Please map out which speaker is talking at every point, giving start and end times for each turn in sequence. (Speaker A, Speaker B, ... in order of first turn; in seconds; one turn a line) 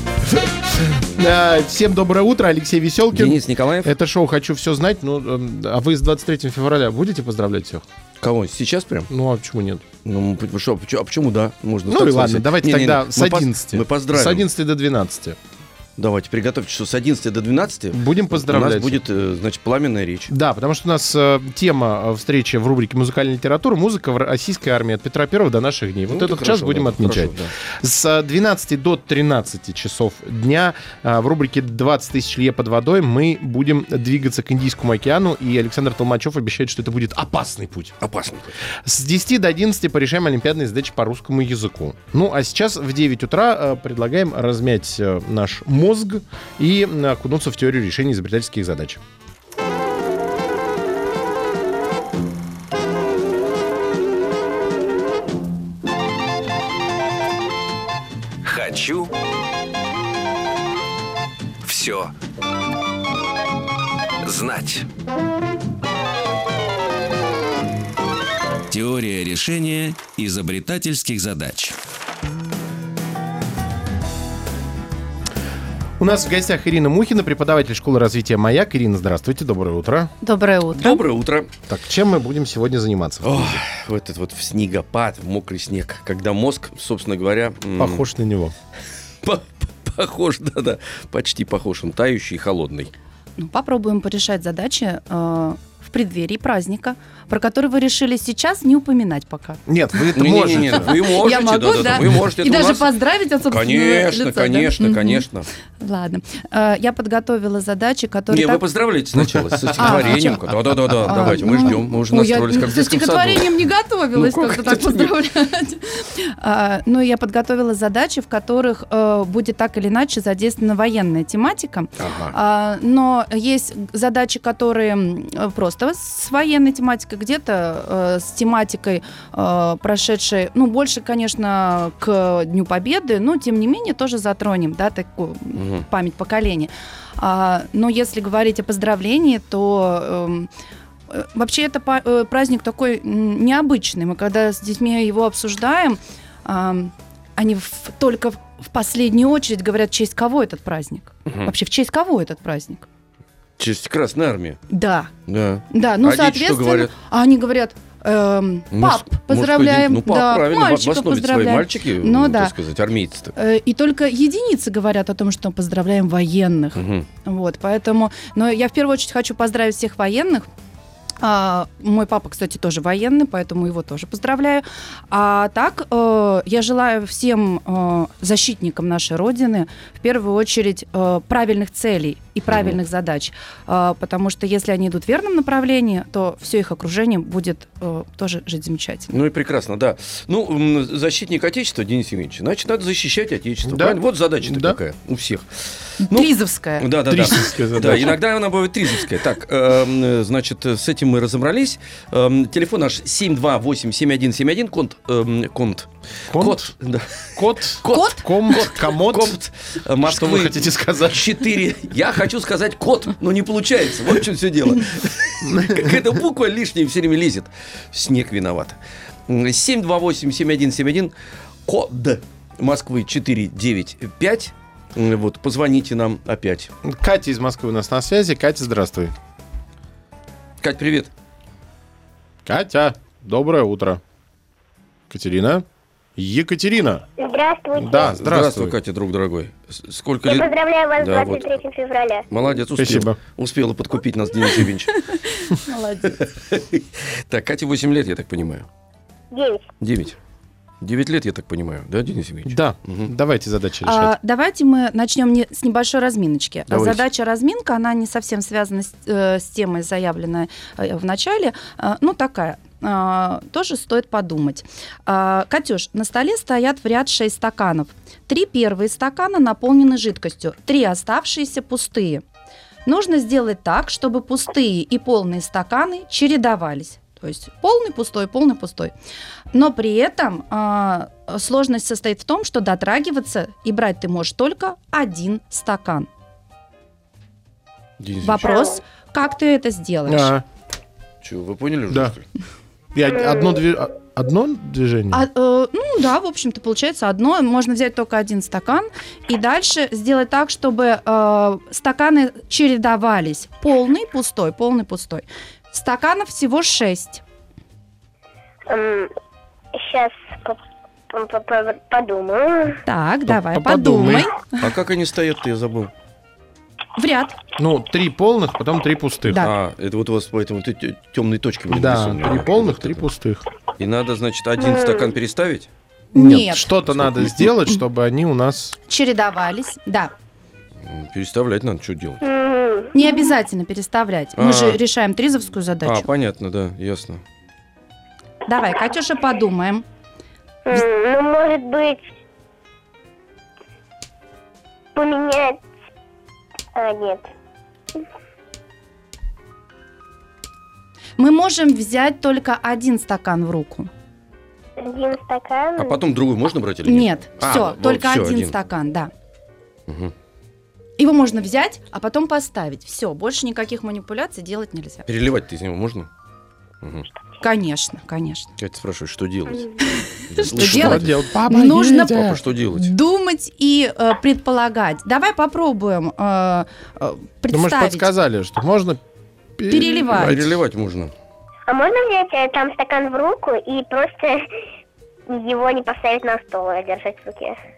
Speaker A: 0.3-7.8
Speaker B: 3.1-3.9
Speaker B: 8.2-9.1
Speaker A: 9.1-9.8
Speaker B: 10.0-14.5
Speaker A: 11.9-15.4
Speaker B: 16.0-20.3
Speaker A: 17.9-19.0
Speaker A: 20.3-38.0
Speaker B: 26.1-27.5
Speaker B: 38.0-38.5
Speaker A: 38.8-49.0
Speaker C: 58.5-59.1
Speaker C: 61.6-62.1
Speaker C: 64.2-64.9
Speaker C: 68.7-71.8
Speaker A: 76.0-80.1
Speaker D: 80.2-81.0
Speaker B: 80.8-81.5
Speaker A: 81.7-83.6
Speaker B: 83.2-88.0
Speaker A: 87.8-88.5
Speaker B: 89.2-92.9
Speaker D: 93.4-100.1
Speaker A: 99.7-101.0
Speaker B: 100.2-102.9
Speaker D: 100.8-105.3
Speaker B: 103.5-105.5
Speaker D: 105.8-108.6
Speaker B: 108.3-113.5
Speaker A: 109.2-111.5
Speaker D: 109.8-110.5
Speaker D: 111.0-140.5
Speaker B: 114.1-115.1
Speaker B: 122.0-122.3
Speaker B: 135.6-135.9
Speaker D: 141.1-152.9
Speaker B: 151.3-151.5
Speaker B: 153.6-154.6
Speaker D: 154.7-155.1
Speaker B: 155.3-156.9
Speaker D: 155.7-162.6
Speaker B: 158.7-163.3
Speaker D: 163.3-170.5
Speaker B: 166.8-167.1
Speaker D: 171.2-189.2
Speaker B: 182.5-182.8
Speaker B: 189.1-195.5
Speaker A: 193.7-194.8
Speaker D: 196.0-197.3
Speaker B: 196.1-218.8
Speaker A: 197.1-198.2
Speaker A: 206.3-206.7
Speaker A: 207.4-209.4
Speaker D: 207.9-208.3
Speaker A: 210.0-211.4
Speaker A: 215.4-216.0
Speaker B: 219.3-221.1
Speaker B: 221.7-226.7
Speaker A: 226.8-229.1
Speaker B: 230.6-231.1
Speaker A: 232.5-234.0
Speaker A: 235.1-235.7
Speaker A: 236.2-237.0
Speaker E: 237.2-238.1
Speaker A: 237.8-238.8
Speaker B: 238.0-241.6
Speaker E: 240.2-242.3
Speaker B: 242.3-245.1
Speaker A: 242.8-243.2
Speaker D: 245.1-246.2
Speaker B: 246.0-248.7
Speaker E: 249.3-249.7
Speaker B: 249.8-250.2
Speaker B: 250.8-253.1
Speaker A: 252.5-254.1
Speaker D: 253.8-272.2
Speaker B: 256.7-257.1
Speaker D: 272.9-278.9
Speaker D: 279.5-286.1
Speaker B: 288.0-288.6
Speaker D: 288.2-290.3
Speaker A: 290.1-290.4
Speaker B: 291.2-292.2
Speaker A: 292.9-295.3
Speaker D: 295.1-307.2
Speaker E: 308.7-309.1
Speaker E: 309.8-310.6
Speaker E: 311.1-312.8
Speaker D: 312.9-314.6
Speaker A: 313.3-314.3
Speaker B: 314.6-315.9
Speaker D: 317.0-317.4
Speaker A: 317.6-319.5
Speaker B: 319.4-323.0
Speaker A: 321.7-323.4
Speaker B: 323.8-325.7
Speaker E: 324.6-325.1
Speaker D: 326.1-326.7
Speaker A: 326.1-328.8
Speaker B: 326.9-327.3
Speaker D: 328.9-330.1
Speaker B: 330.8-332.2
Speaker E: 332.2-332.9
Speaker D: 332.9-336.1
Speaker B: 334.4-334.8
Speaker B: 335.9-337.2
Speaker D: 338.5-339.9
Speaker E: 340.7-342.1
Speaker E: 344.9-345.6
Speaker E: 346.8-347.3
Speaker D: 351.2-353.9
Speaker E: 354.8-356.0
Speaker B: 355.8-358.5
Speaker D: 356.9-359.1
Speaker B: 359.9-360.1
Speaker D: 361.0-365.1
Speaker B: 365.1-366.1
Speaker B: 366.8-367.1
Speaker D: 367.4-368.5
Speaker B: 368.6-371.2
Speaker D: 370.3-378.1
Speaker A: 370.5-372.4
Speaker B: 372.1-372.9
Speaker A: 377.5-379.0
Speaker A: 379.6-380.4
Speaker D: 379.7-380.4
Speaker B: 379.9-381.1
Speaker E: 381.7-384.5
Speaker E: 385.3-387.6